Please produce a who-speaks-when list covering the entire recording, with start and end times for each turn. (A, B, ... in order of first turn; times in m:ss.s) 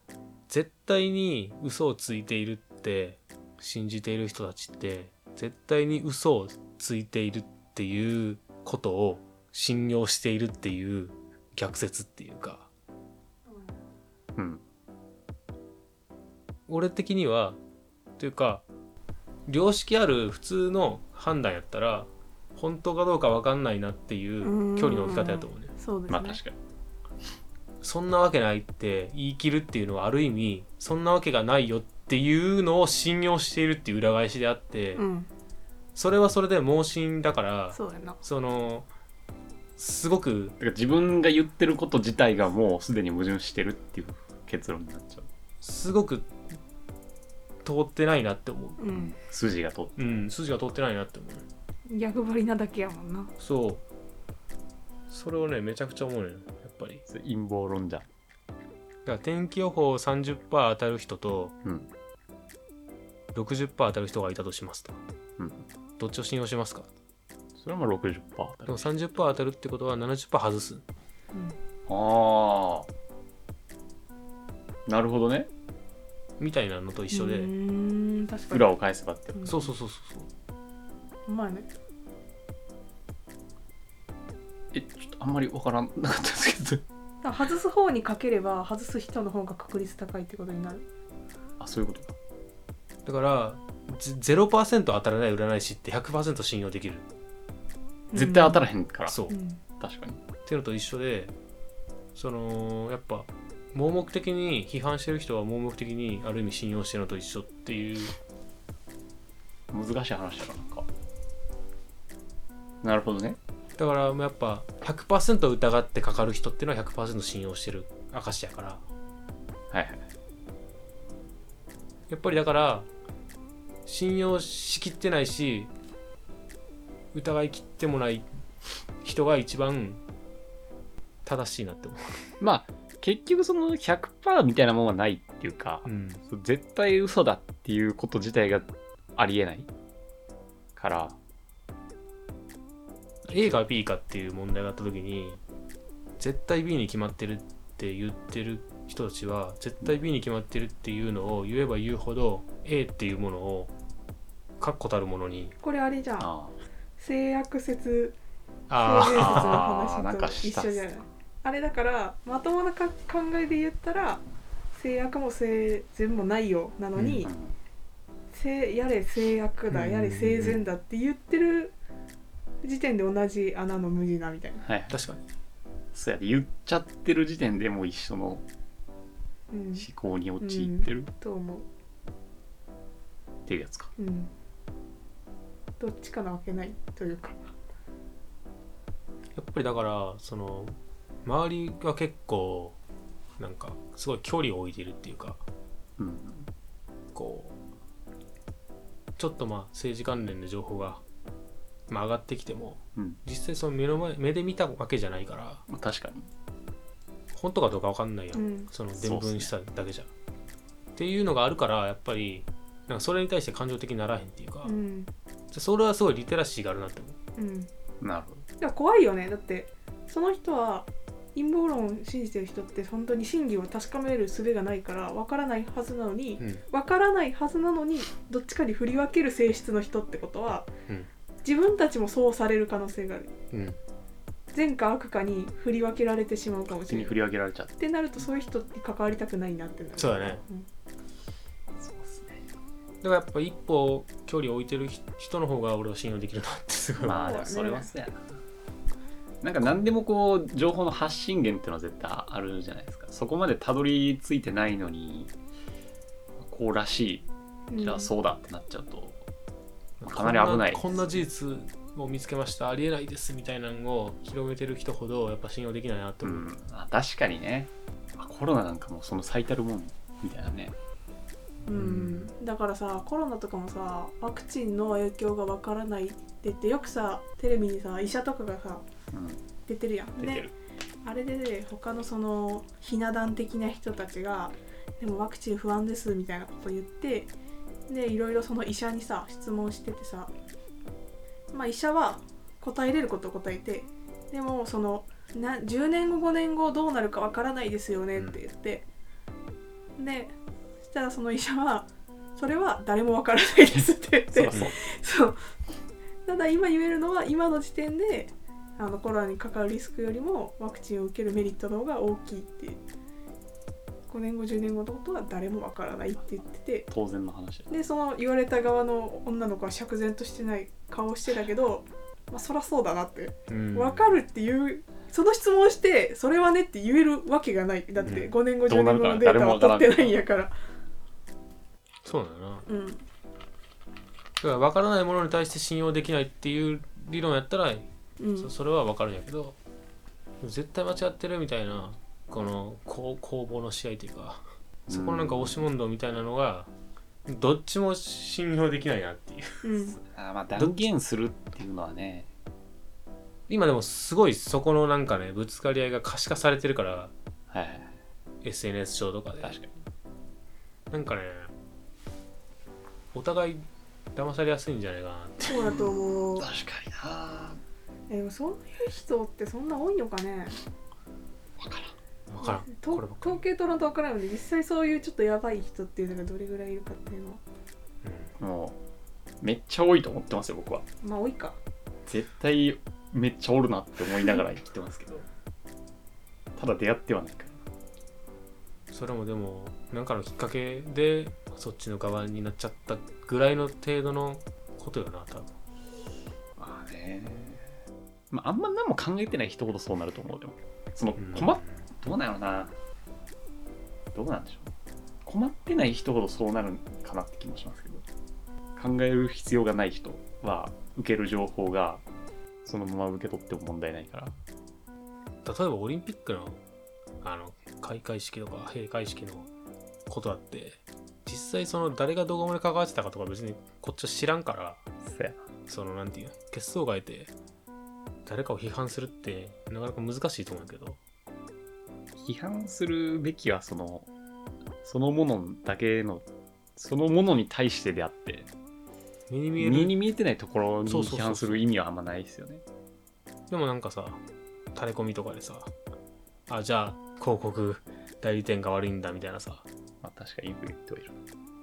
0:00.5-0:12.7 A
0:13.5-0:13.8 B
0:14.4-0:14.6 C
0:16.7-0:17.6 A
0:18.2-0:18.6 A
0:19.5-0:25.7 A
0:24.4-0:26.4 B
0:26.1-0:26.5 C
0:27.8-0:35.0 A
0:34.9-0:35.3 B
0:35.9-0:38.9 A
0:37.7-0:38.2 B
0:39.8-0:40.6 A
0:40.6-0:45.3 C
0:45.6-0:46.3 A
0:47.6-0:48.8 A
0:48.8-0:49.2 B
0:48.9-0:50.0 C
0:50.0-0:51.4 A
0:51.9-0:53.3 B
0:53.4-0:53.8 A
0:55.1-0:57.0 A
0:57.1-0:58.1 C
0:59.0-1:01.5 A
1:01.6-1:01.9 C
1:03.3-1:05.0 A
1:05.4-1:05.6 C
1:06.0-1:06.9 A
1:07.6-1:08.9 C
1:08.6-1:10.8 A
1:11.9-1:12.9 C
1:14.9-1:15.5 C
1:16.4-1:17.5 A
1:17.1-1:18.7 B
1:18.5-1:19.4 C
1:19.3-1:19.7 B
1:19.4-1:20.3 A
1:21.3-1:21.7 B
1:24.7-1:26.8 C
1:27.2-1:30.8 B
1:31.6-1:32.1 C
1:33.0-1:37.0 A
1:38.1-1:38.6 B
1:38.1-1:39.2 C
1:39.0-1:39.4 A
1:39.3-1:39.6 B
1:39.8-1:40.2 C
1:40.4-1:41.3 A
1:42.1-1:48.1 A
1:49.7-1:50.9 C
1:52.8-1:53.4 C
1:53.8-1:58.8 A
1:59.7-2:00.0 C
2:02.1-2:02.9 A
2:03.8-2:05.7 A
2:07.1-2:08.2 A
2:09.0-2:10.0 A
2:11.2-2:12.2 A
2:12.4-2:19.7 C
2:15.8-2:16.2 A
2:20.8-2:21.2 C
2:23.3-2:23.6 C
2:23.3-2:25.4 A
2:26.2-2:33.7 A
2:34.6-2:35.5 A
2:35.6-2:36.3 B
2:36.2-2:36.6 C
2:37.0-2:38.2 B
2:38.7-2:39.6 A
2:38.8-2:47.3 B
2:39.1-2:40.8 C
2:47.0-2:47.2 A
2:47.0-2:47.6 C
2:48.3-2:51.7 B
2:49.7-2:50.6 A
2:52.6-2:54.7 B
2:54.6-2:55.0 C
2:54.9-2:55.2 A
2:55.9-2:58.4 C
2:59.5-2:59.9 B
2:59.7-3:01.1 C
3:00.4-3:01.7 B
3:03.4-3:03.9 C
3:04.0-3:04.3 B
3:05.8-3:07.4 B
3:09.4-3:12.8 A
3:13.4-3:15.4 A
3:16.0-3:16.5 C
3:17.1-3:17.6 A
3:19.2-3:21.0 A
3:21.9-3:25.6 A
3:25.7-3:26.3 C
3:27.3-3:30.1 A
3:28.3-3:28.7 B
3:28.9-3:29.5 C
3:31.0-3:34.8 A
3:34.6-3:35.1 B
3:35.5-3:37.2 A
3:37.4-3:37.7 B
3:38.0-3:38.4 C
3:38.6-3:50.7 B
3:51.4-3:53.3 B
3:53.5-3:53.8 A
3:54.5-3:57.2 B
3:56.8-3:57.7 C
3:57.8-4:00.7 B
4:00.0-4:00.4 A
4:01.8-4:02.4 C
4:03.0-4:07.2 A
4:07.0-4:08.2 C
4:07.0-4:08.0 B
4:09.4-4:15.3 C
4:16.4-4:17.3 C
4:17.7-4:18.1 B
4:17.8-4:19.2 C
4:20.0-4:26.5 A
4:20.0-4:21.2 C
4:26.2-4:30.7 C
4:31.6-4:38.8 B
4:31.7-4:32.3 A
4:39.1-4:39.5 C
4:39.6-4:40.5 B
4:40.2-4:40.5 C
4:41.0-4:47.3 B
4:47.9-4:50.3 B
4:51.5-4:58.8 B
4:58.1-4:58.4 A
5:00.0-5:05.4 B
5:04.3-5:04.7 C
5:06.2-5:12.8 B
5:14.1-5:16.9 B
5:16.9-5:17.7 C
5:17.7-5:30.5 B
5:23.5-5:24.2 A
5:28.0-5:28.3 A
5:28.0-5:30.1 C
5:32.0-5:32.6 A
5:32.6-5:33.0 B
5:34.4-5:37.9 A
5:38.2-5:38.5 B
5:38.4-5:39.6 A
5:40.4-5:46.7 A
5:44.9-5:45.7 C
5:47.3-5:49.4 A
5:49.6-5:50.0 B
5:50.0-5:52.3 C
5:50.6-5:50.9 A
5:53.5-5:57.1 A
5:57.5-5:57.9 C
5:58.4-5:59.6 A
5:59.4-5:59.7 C
6:00.9-6:01.5 A
6:03.1-6:05.7 A
6:05.4-6:06.5 B
6:05.6-6:07.6 C
6:08.1-6:10.6 B
6:12.3-6:13.4 A
6:12.4-6:17.4 B
6:18.0-6:18.3 A
6:18.4-6:18.8 C
6:19.4-6:20.8 C
6:21.0-6:21.6 B
6:22.0-6:25.2 C
6:26.6-6:27.6 C
6:28.9-6:35.5 A
6:36.6-6:37.6 C
6:38.3-6:42.7 C
6:41.2-6:41.8 A
6:44.1-6:44.7 C
6:45.2-6:48.0 C
6:48.8-6:52.0 C
6:52.6-6:54.4 C
6:55.4-6:56.6 A
6:57.2-6:59.5 A
7:00.1-7:04.8 A
7:05.0-7:05.4 C
7:05.7-7:07.3 A
7:08.2-7:11.0 A
7:12.2-7:14.1 C
7:14.8-7:18.5 C
7:19.3-7:20.0 A
7:19.6-7:22.6 C
7:20.8-7:21.6 A
7:23.5-7:24.2 A
7:24.7-7:25.7 A
7:26.5-7:29.6 A
7:30.0-7:31.1 C